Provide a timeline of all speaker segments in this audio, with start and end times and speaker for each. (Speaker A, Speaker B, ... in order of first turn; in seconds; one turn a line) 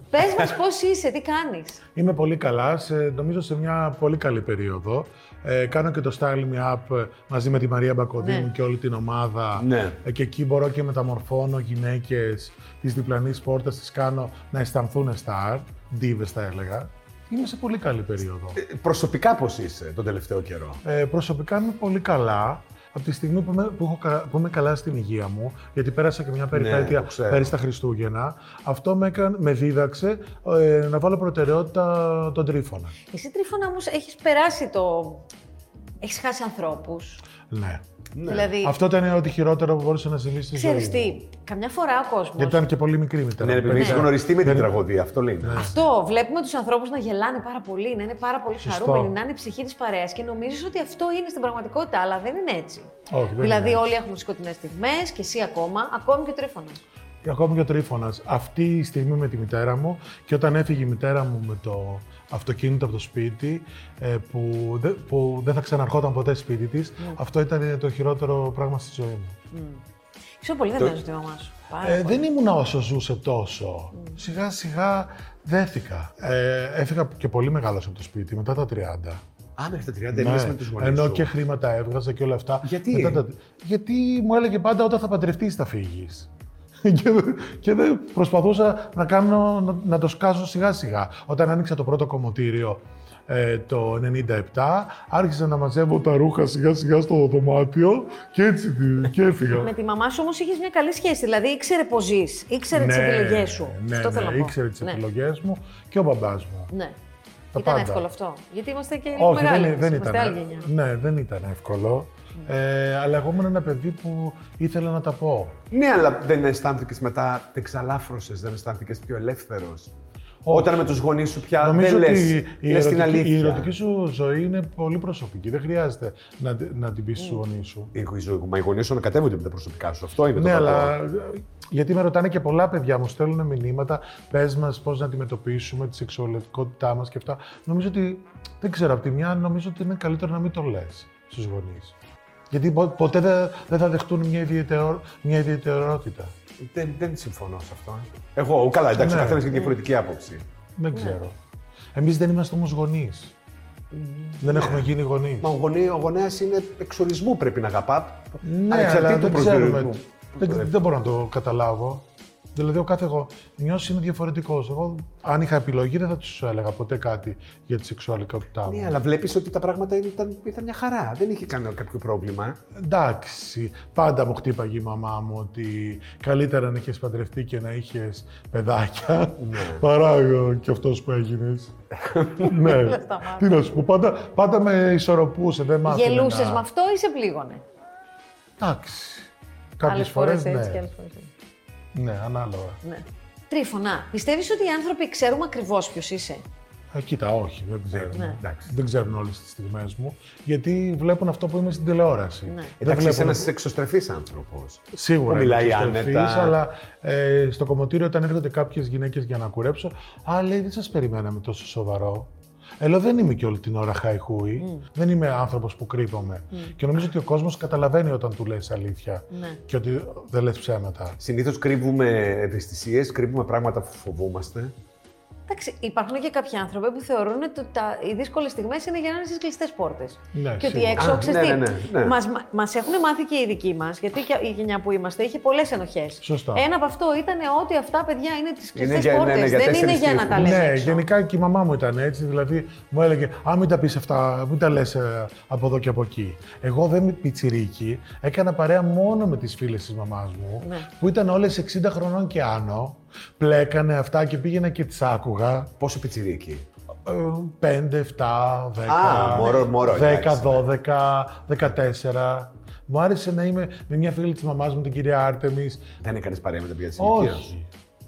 Speaker A: 0.1-1.8
Speaker B: 0.2-0.5
Speaker C: 1.9-18.6
Speaker A: 8.2-8.5
Speaker B: 9.5-10.0
Speaker B: 18.6-20.8
Speaker C: 20.8-32.9
Speaker B: 26.5-27.5
Speaker A: 33.1-35.2
Speaker A: 36.0-37.2
Speaker C: 37.5-37.8
Speaker B: 38.1-38.5
Speaker A: 38.2-38.8
Speaker C: 38.4-41.2
Speaker A: 40.5-42.7
Speaker C: 42.4-44.8
Speaker B: 43.4-45.7
Speaker A: 43.7-44.1
Speaker C: 45.4-45.8
Speaker A: 45.5-56.8
Speaker C: 48.6-49.1
Speaker C: 53.1-53.9
Speaker C: 57.2-69.3
Speaker A: 69.5-69.8
Speaker A: 70.4-72.2
Speaker C: 71.8-79.2
Speaker B: 79.6-81.3
Speaker C: 80.1-86.3
Speaker B: 82.6-83.2
Speaker C: 86.8-99.7
Speaker A: 99.5-105.0
Speaker C: 102.7-106.7
Speaker C: 107.5-108.0
Speaker A: 107.5-110.7
Speaker C: 109.1-115.6
Speaker B: 115.7-119.9
Speaker C: 120.4-120.8
Speaker B: 120.5-123.7
Speaker C: 121.6-127.9
Speaker B: 127.9-130.9
Speaker C: 130.3-141.9
Speaker C: 142.5-146.3
Speaker B: 146.6-150.4
Speaker C: 148.9-149.6
Speaker C: 150.8-151.3
Speaker A: 150.9-151.2
Speaker C: 151.9-153.3
Speaker B: 153.9-154.9
Speaker C: 154.4-155.5
Speaker B: 155.4-160.7
Speaker C: 158.4-162.0
Speaker C: 162.5-168.9
Speaker B: 168.6-172.6
Speaker C: 172.8-181.7
Speaker B: 179.4-179.8
Speaker B: 182.0-182.5
Speaker C: 182.4-186.6
Speaker A: 182.6-183.6
Speaker A: 185.8-187.6
Speaker C: 188.6-190.9
Speaker A: 189.8-191.3
Speaker C: 191.9-192.8
Speaker A: 192.8-196.4
Speaker C: 196.9-203.5
Speaker B: 197.9-198.6
Speaker A: 198.1-198.4
Speaker B: 202.8-206.6
Speaker C: 204.9-221.2
Speaker A: 214.6-214.8
Speaker A: 219.3-219.6
Speaker B: 221.2-224.7
Speaker A: 225.5-241.0
Speaker C: 230.3-231.2
Speaker B: 231.0-232.2
Speaker C: 236.2-236.7
Speaker B: 238.7-240.6
Speaker C: 240.3-255.7
Speaker A: 250.6-250.9
Speaker B: 255.8-256.6
Speaker C: 257.1-265.9
Speaker B: 258.9-260.6
Speaker B: 266.0-267.5
Speaker C: 267.0-267.7